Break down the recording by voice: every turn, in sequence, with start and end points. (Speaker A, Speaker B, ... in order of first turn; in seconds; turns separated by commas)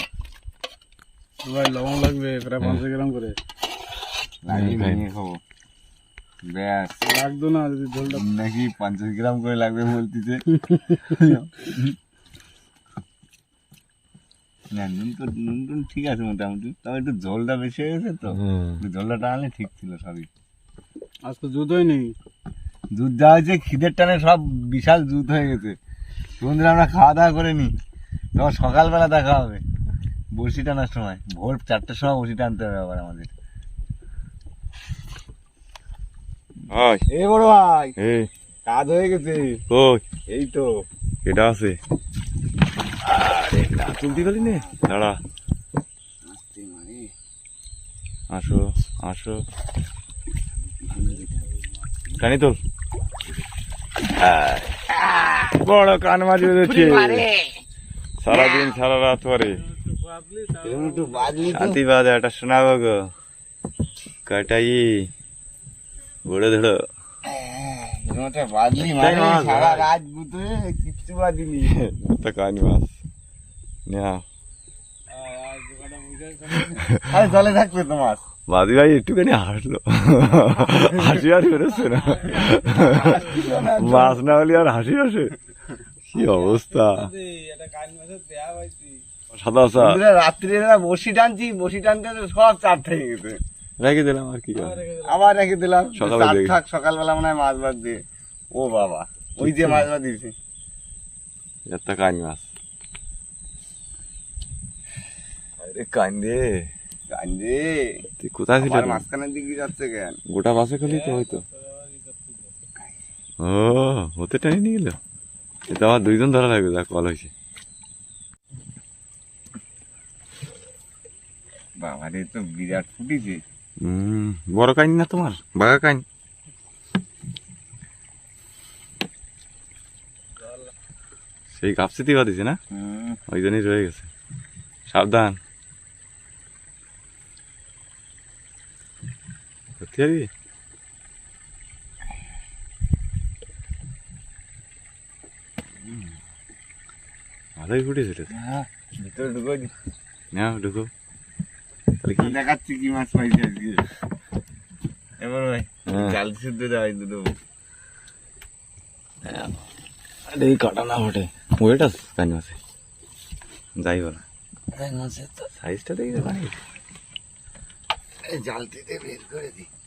Speaker A: 1.4-3.4, Speaker B: 4.4-5.4, Speaker C: 4.5-5.0, Speaker B: 6.4-7.0, Speaker A: 7.0-8.3, Speaker B: 8.0-11.9, Speaker B: 14.7-20.3, Speaker C: 18.3-18.8, Speaker A: 21.2-22.1, Speaker B: 22.9-25.8, Speaker B: 26.4-27.7, Speaker B: 28.4-29.6, Speaker B: 30.3-33.3, Speaker C: 36.7-37.0, Speaker B: 37.1-37.9, Speaker C: 38.0-38.3, Speaker B: 38.7-39.6, Speaker C: 39.7-40.0, Speaker B: 40.3-40.7, Speaker C: 41.2-41.8, Speaker C: 43.1-45.2, Speaker B: 46.3-47.1, Speaker C: 48.3-49.4, Speaker B: 50.8-51.4, Speaker C: 52.2-52.6, Speaker C: 54.1-54.7, Speaker C: 55.5-57.3, Speaker B: 56.5-57.5, Speaker C: 58.2-59.6, Speaker B: 58.3-58.8, Speaker A: 59.5-61.5, Speaker B: 60.6-61.8, Speaker C: 61.5-63.1, Speaker C: 64.2-65.1, Speaker C: 66.2-66.8, Speaker B: 67.2-71.7, Speaker C: 68.8-69.9, Speaker C: 71.7-73.0, Speaker C: 73.9-74.2, Speaker A: 75.1-76.9, Speaker B: 77.0-78.2, Speaker C: 78.5-85.2, Speaker A: 81.9-84.1, Speaker B: 82.7-84.4, Speaker C: 86.0-87.1, Speaker A: 86.1-89.0, Speaker C: 89.3-90.0, Speaker B: 89.8-93.4, Speaker C: 93.8-94.9, Speaker A: 94.5-95.2, Speaker B: 95.0-98.0, Speaker C: 96.0-96.6, Speaker B: 98.5-100.3, Speaker C: 99.4-99.9, Speaker C: 101.7-102.5, Speaker C: 105.6-106.7, Speaker B: 107.1-108.0, Speaker C: 108.2-109.0, Speaker B: 108.6-110.2, Speaker C: 110.3-111.4, Speaker A: 110.8-112.5, Speaker C: 113.4-115.0, Speaker C: 115.7-117.3, Speaker B: 121.8-123.4, Speaker C: 123.8-126.0, Speaker C: 131.5-132.6, Speaker B: 132.7-133.2, Speaker C: 133.3-134.1, Speaker C: 134.9-135.4, Speaker C: 139.8-140.3, Speaker C: 147.6-148.3, Speaker B: 148.3-149.7, Speaker C: 150.3-150.9, Speaker C: 152.0-152.4, Speaker B: 152.2-153.8, Speaker B: 155.2-157.3, Speaker C: 155.9-156.2, Speaker C: 160.3-162.6, Speaker C: 163.8-164.2, Speaker B: 164.7-165.5, Speaker C: 165.6-166.6, Speaker B: 168.2-169.7